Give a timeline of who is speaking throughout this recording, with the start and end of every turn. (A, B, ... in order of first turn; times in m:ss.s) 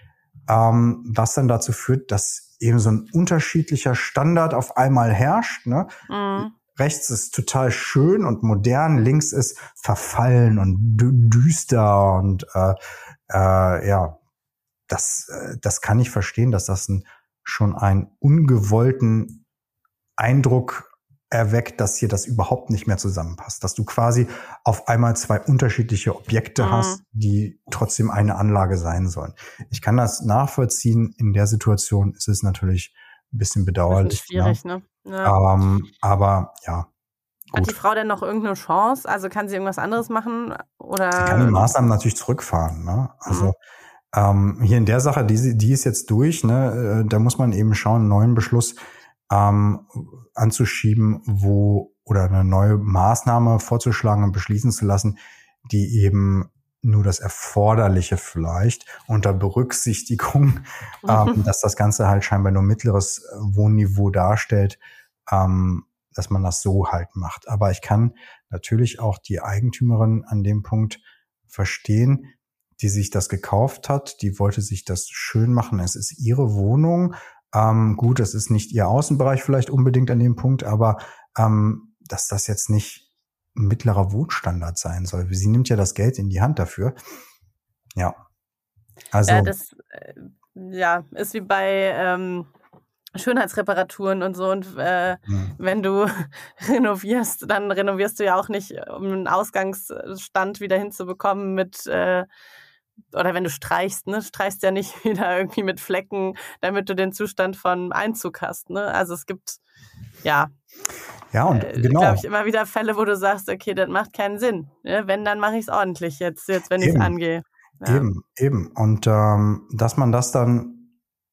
0:00.5-0:12.8 A
0:06.1-0:06.5 B
0:13.3-0:14.2 A
0:14.9-0:19.4 A
0:20.2-0:34.6 A
0:26.6-0:27.0 B
0:33.9-0:35.4 B
0:35.2-0:36.9 A
0:37.5-0:41.7 B
0:41.2-0:43.6 A
0:44.1-0:48.8 A
0:49.3-1:26.9 A
1:01.0-1:01.4 B
1:29.1-1:29.5 A
1:29.3-1:32.5 B
1:33.2-1:42.2 B
1:43.1-1:49.6 B
1:50.2-1:50.5 B
1:51.3-1:52.2 A
1:51.5-1:58.1 B
1:56.8-1:57.1 A
1:57.8-2:00.9 A